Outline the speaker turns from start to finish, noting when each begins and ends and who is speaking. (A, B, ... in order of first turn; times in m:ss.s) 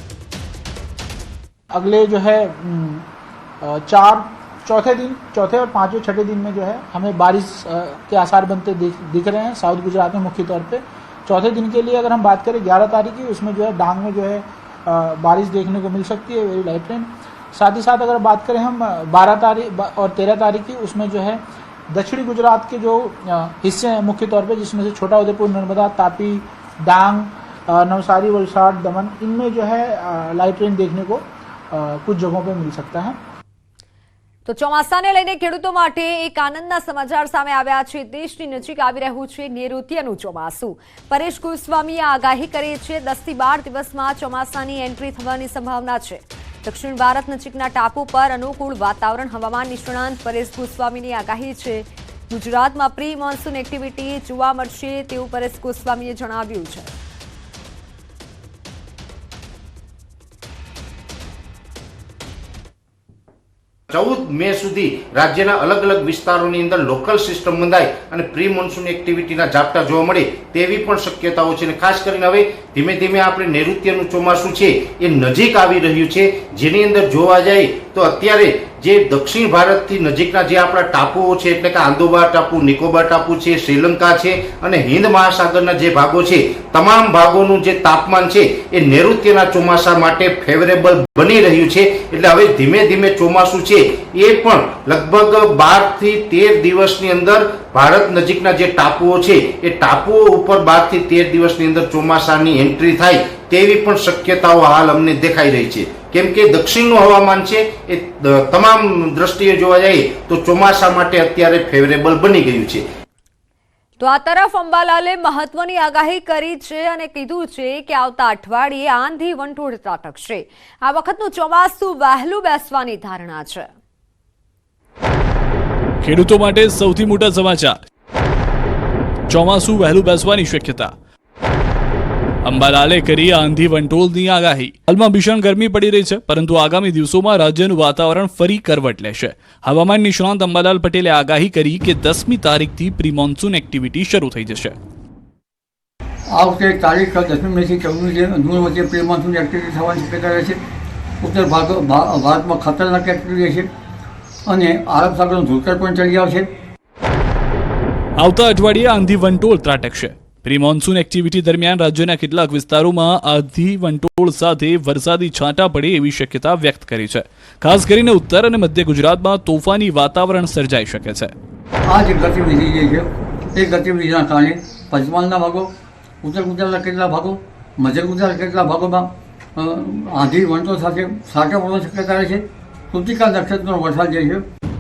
0:01.7-0:03.0 A
0:03.6-0:33.2 A
0:34.4-0:56.9 B
1:03.9-1:52.8 C
1:54.0-2:03.6 B
2:06.0-2:07.8 D
2:09.3-2:10.9 D
2:12.4-2:24.8 D
2:26.3-2:30.6 E
2:31.2-2:33.7 E
2:34.5-2:36.5 E
2:38.2-2:51.3 D
2:51.8-3:04.4 E